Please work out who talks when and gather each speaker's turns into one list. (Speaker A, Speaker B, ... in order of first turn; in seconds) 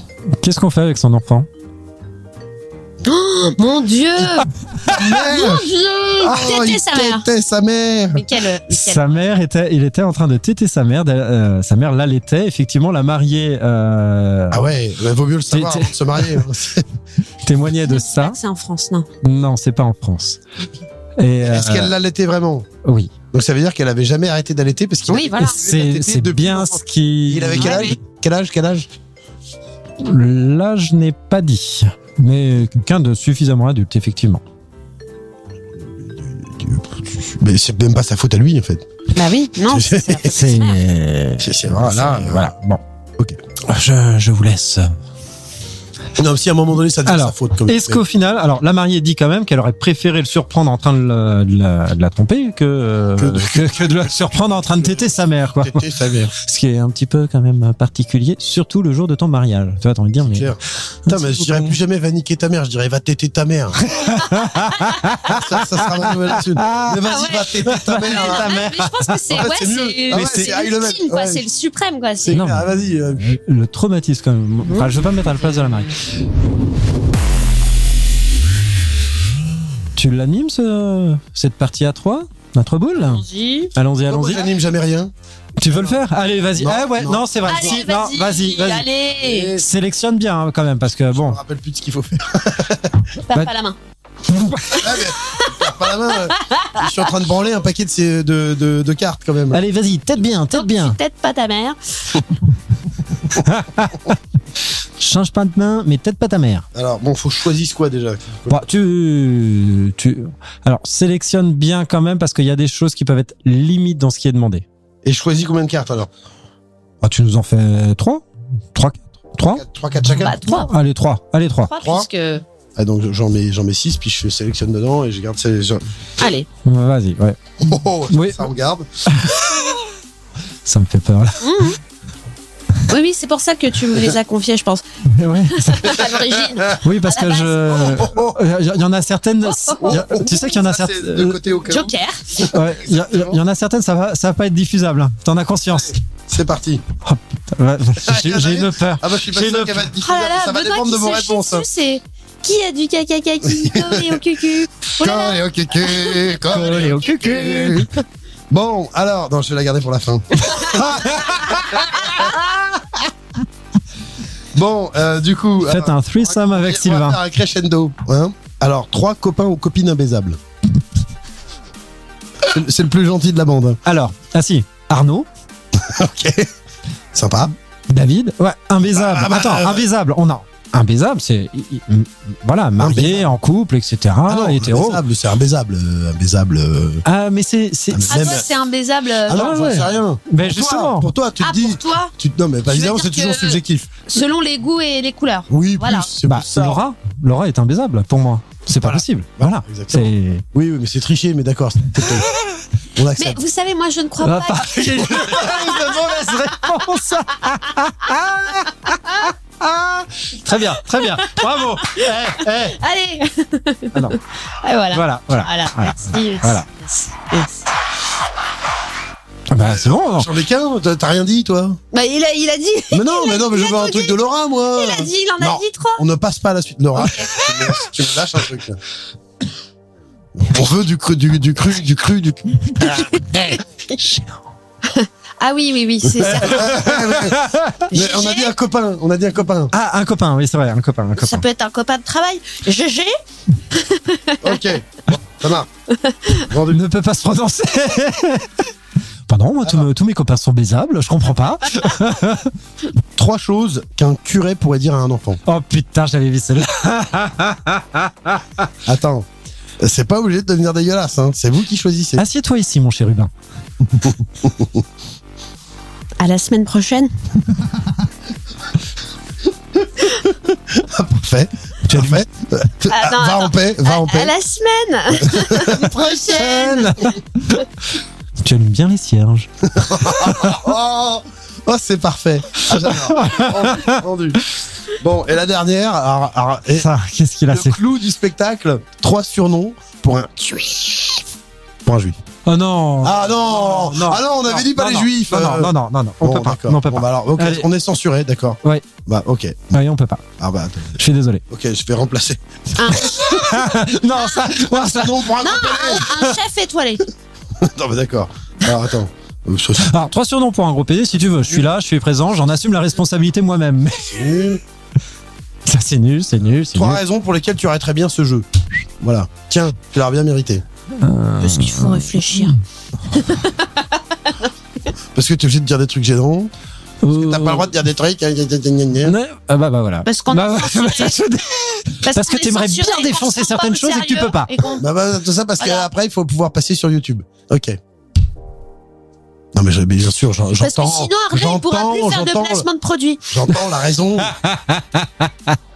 Speaker A: 0.4-1.5, 8.7-14.6, 15.5-16.3, 17.4-18.4, 19.2-20.4, 21.2-21.9, 22.8-23.1, 25.4-27.9, 30.0-34.4, 40.3-42.8, 43.6-45.0, 47.1-60.5, 61.1-61.7, 63.9-67.0, 67.7-69.5, 70.1-70.5, 72.3-76.0, 80.0-83.2, 83.8-84.5, 85.6-88.9, 89.5-91.4, 94.3-95.0, 99.5-101.0, 103.3-104.2, 105.0-106.7, 108.5-114.7, 117.0-119.7, 120.4-121.7, 126.6-127.4, 128.1-128.5, 129.1-129.8, 130.7-131.4, 135.1-136.1, 136.8-141.4, 142.4-146.0, 147.0-149.8, 156.5-157.9, 160.6-162.4, 165.7-167.2, 173.8-175.3, 177.9-185.0, 187.1-188.4, 189.3-191.1, 196.2-200.4, 204.2-212.8, 214.9-216.7, 219.5-220.3, 234.0-234.4, 236.2-237.8, 239.7-241.4, 246.7-248.6, 249.3-252.5, 255.5-258.7, 262.2-263.3, 271.9-272.2, 276.1-277.7, 278.4-280.6, 282.7-284.0, 286.8-287.8, 292.5-297.7, 299.7-300.2, 301.0-301.4, 303.0-305.3, 309.8-314.4, 315.7-317.0, 321.0-322.5, 327.0-327.7, 329.0-334.6, 344.2-345.6
Speaker B: 3.0-7.3, 8.1-9.1, 17.9-19.1, 25.1-25.6, 27.6-27.9, 39.1-40.8, 67.0-72.4, 74.6-75.7, 83.0-83.7, 87.5-89.6, 93.3-93.8, 96.2-96.9, 100.5-102.2, 120.2-120.7, 121.7-122.4, 126.2-126.5, 131.4-131.8, 132.9-134.8, 135.5-138.1, 139.5-140.0, 141.7-142.4, 150.0-156.4, 188.1-189.6, 191.4-192.1, 192.7-196.1, 203.2-205.9, 211.0-212.1, 212.7-217.7, 221.9-224.2, 224.7-226.0, 234.8-236.8, 237.9-238.5, 241.2-243.2, 243.7-244.5, 246.0-246.5, 266.2-267.1, 272.9-277.2, 302.8-303.5, 305.4-307.1, 321.4-322.6, 323.1-323.8, 330.1-331.2, 332.1-334.9, 335.6-335.9, 340.6-343.3
Speaker C: 4.8-5.7, 6.2-8.2, 14.5-16.9, 21.4-22.7, 23.3-28.9, 36.0-38.9, 39.7-40.3, 41.4-42.5, 46.1-48.0, 53.2-54.0, 54.7-56.3, 60.3-64.1, 65.2-68.5, 69.3-71.5, 72.2-73.3, 84.1-85.1, 85.7-86.0, 86.5-87.8, 89.2-89.7, 91.1-93.0, 94.7-99.6, 106.7-108.7, 115.0-116.1, 119.5-120.4, 121.8-122.1, 122.8-125.8, 127.6-128.9, 137.8-138.4, 139.8-143.4, 145.7-146.8, 148.0-151.7, 153.4-154.2, 155.0-157.9, 158.5-162.3, 164.5-170.4, 172.4-173.8, 175.7-176.5, 177.1-177.5, 178.9-179.9, 182.8-183.3, 184.3-187.0, 187.9-188.5, 189.3-193.9, 195.5-196.8, 198.8-202.3, 203.0-203.4, 219.6-221.8, 222.9-228.8, 230.3-233.4, 236.2-239.7, 244.4-245.7, 246.4-246.8, 253.2-255.4, 258.9-259.3, 259.8-262.2, 264.0-264.8, 270.3-274.3, 275.2-275.9, 279.7-286.9, 287.5-291.2, 291.9-292.2, 293.0-299.8, 300.4-303.2, 304.6-306.1, 307.6-309.9, 314.1-314.6, 316.7-318.5, 319.0-320.6, 325.1-326.5, 327.1-329.1, 334.8-337.8, 339.5-342.7, 343.3-344.4